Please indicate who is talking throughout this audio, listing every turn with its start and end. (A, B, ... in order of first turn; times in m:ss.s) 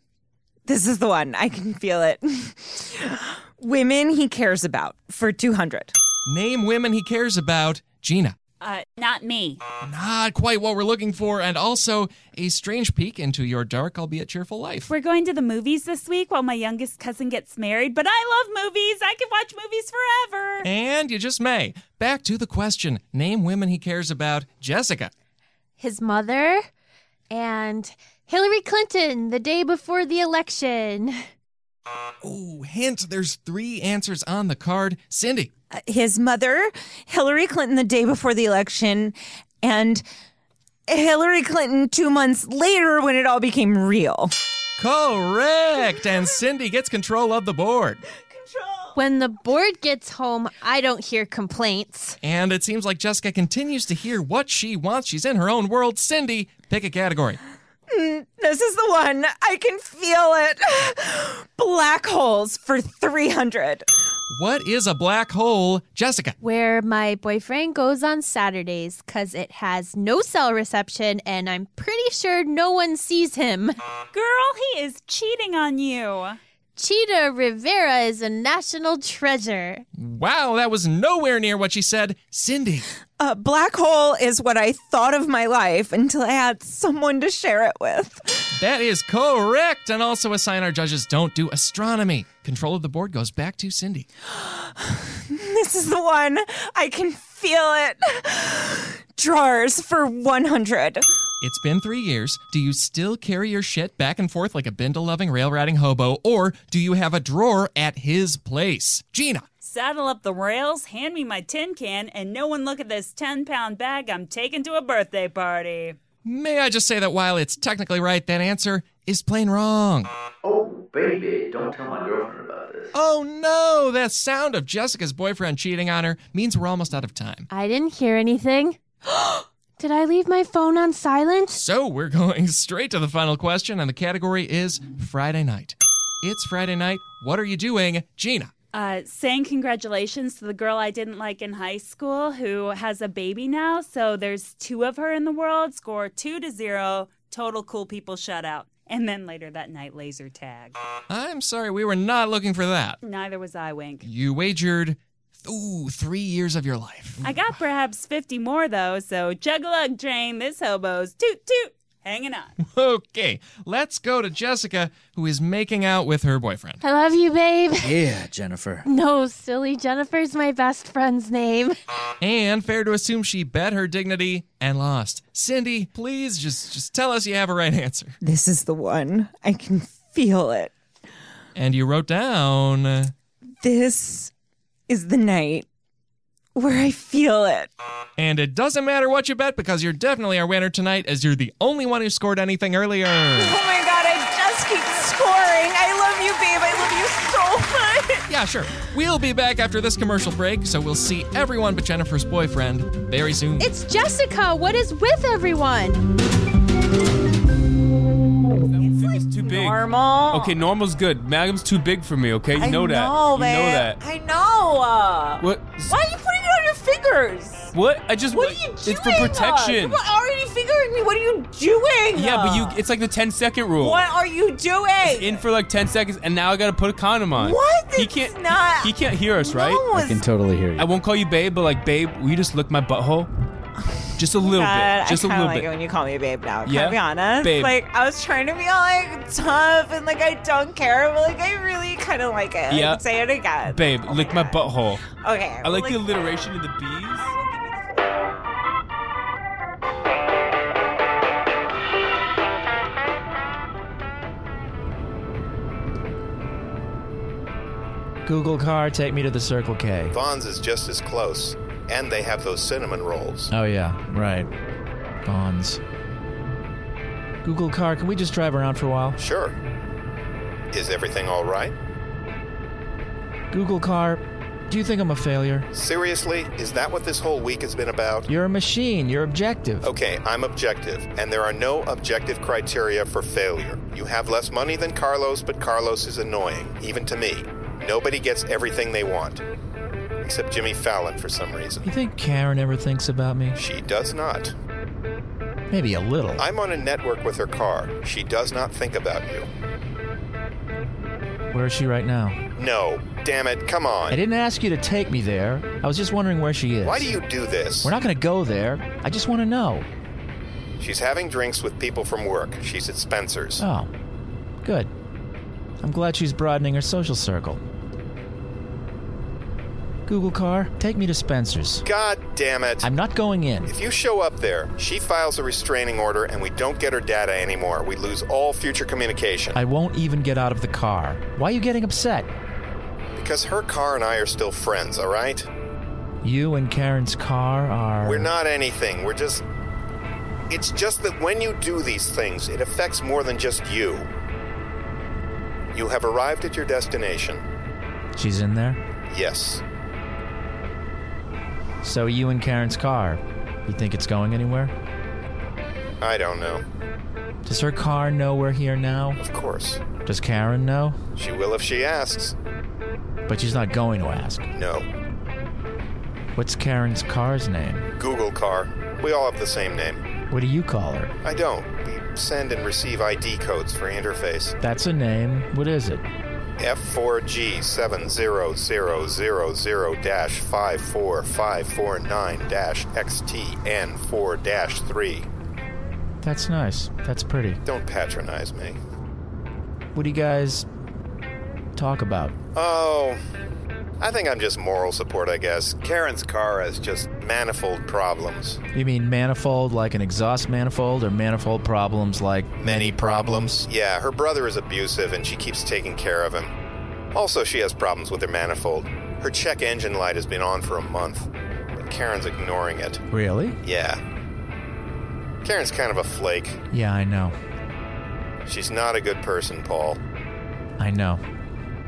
0:00.7-0:05.9 A
0:06.2-0:08.4 B
0:08.6-0:09.6 C
0:09.8-0:14.9 B
0:14.9-0:20.7 C
0:20.6-0:25.1 B
0:25.8-0:26.6 D
0:27.3-0:31.2 D
0:32.2-0:35.5 B
0:35.7-0:40.0 A
0:40.9-0:44.3 A
0:44.8-0:48.0 B
0:48.3-0:48.9 A
0:48.9-0:52.2 D
0:52.2-0:57.4 B
0:57.9-1:03.9 A
1:04.3-1:06.4 B
1:06.4-1:13.8 D
1:14.1-1:16.4 C
1:16.8-1:19.8 D
1:20.0-1:22.9 B
1:23.2-1:28.5 A
1:28.6-1:34.1 B
1:34.3-1:41.0 A
1:41.4-1:49.4 B
1:49.6-1:56.0 C
1:56.2-2:00.1 B
2:00.4-2:02.8 E
2:02.9-2:07.5 B
2:07.5-2:11.6 D
2:11.5-2:18.5 B
2:18.7-2:30.7 C
2:31.1-2:33.0 B
2:33.0-2:34.0 C
2:34.0-2:37.3 B
2:37.2-2:42.5 C
2:42.6-2:46.8 B
2:46.8-2:48.0 D
2:47.8-2:48.8 F
2:48.8-2:51.8 D
2:52.2-2:58.2 B
2:58.2-3:00.7 A
3:01.6-3:03.1 B
3:03.6-3:04.3 A
3:04.9-3:05.6 A
3:06.6-3:07.7 A
3:08.2-3:13.6 B
3:13.3-3:18.2 A
3:18.3-3:23.7 B
3:23.6-3:26.0 D
3:28.7-3:34.0 G
3:28.8-3:30.6 A
3:32.5-3:37.7 A
3:35.4-3:36.0 G
3:37.7-3:40.0 G
3:38.3-3:42.8 A
3:42.1-3:44.0 G
3:43.8-3:45.4 A
3:45.0-3:49.9 G
3:47.4-3:50.2 A
3:50.0-3:50.9 F
3:50.8-3:53.3 G
3:54.2-3:55.7 G
3:54.4-4:06.0 A
3:56.6-3:57.8 G
4:02.7-4:03.0 G
4:03.6-4:05.0 G
4:05.6-4:07.3 G
4:07.1-4:08.0 A
4:18.2-4:20.1 H
4:20.1-4:23.5 I
4:23.5-4:24.5 H
4:25.2-4:25.8 H
4:27.4-4:29.2 H
4:29.2-4:29.6 I
4:30.7-4:31.7 I
4:33.5-4:35.7 H
4:35.7-4:38.3 I
4:38.3-4:39.9 H
4:39.8-4:49.4 I
4:50.2-4:51.9 I
4:51.8-4:53.6 H
4:53.5-4:54.5 I
4:55.7-4:56.4 H
4:56.4-4:59.5 I
5:01.5-5:02.4 H
5:02.6-5:04.2 I
5:04.1-5:07.1 H
5:06.8-5:07.9 I
5:07.8-5:09.9 H
5:10.8-5:13.6 I
5:13.6-5:13.9 H
5:14.6-5:14.9 H
5:15.8-5:17.6 H
5:20.1-5:21.8 H
5:21.8-5:22.9 I
5:22.8-5:23.7 H
5:23.7-5:29.6 I
5:29.5-5:32.3 H
5:33.2-5:35.5 I
5:36.2-5:38.3 H
5:38.0-5:39.4 I
5:40.5-5:44.1 I
5:45.7-5:47.4 I
5:48.2-5:48.8 H
5:49.1-5:49.6 I
5:51.8-5:54.7 H
5:56.0-5:56.6 I
5:57.4-5:59.2 H
5:59.2-5:59.8 I
6:00.0-6:01.0 H
6:01.1-6:02.3 I
6:03.3-6:04.5 H
6:04.5-6:04.9 I
6:06.4-6:07.9 H
6:08.0-6:10.0 I
6:10.3-6:11.1 H
6:11.2-6:14.6 I
6:14.6-6:16.0 H
6:16.6-6:25.3 I
6:26.2-6:27.6 H
6:27.6-6:28.8 I
6:29.9-6:30.6 H
6:31.8-6:32.3 H
6:32.5-6:33.2 I
6:34.0-6:38.6 I
6:38.7-6:43.6 H
6:42.6-6:46.5 I
6:47.1-6:53.0 I
6:53.1-6:53.6 H
6:53.6-6:54.0 I
6:55.4-6:56.6 I
6:56.7-6:57.4 H
6:58.4-7:00.0 I
7:00.8-7:01.2 H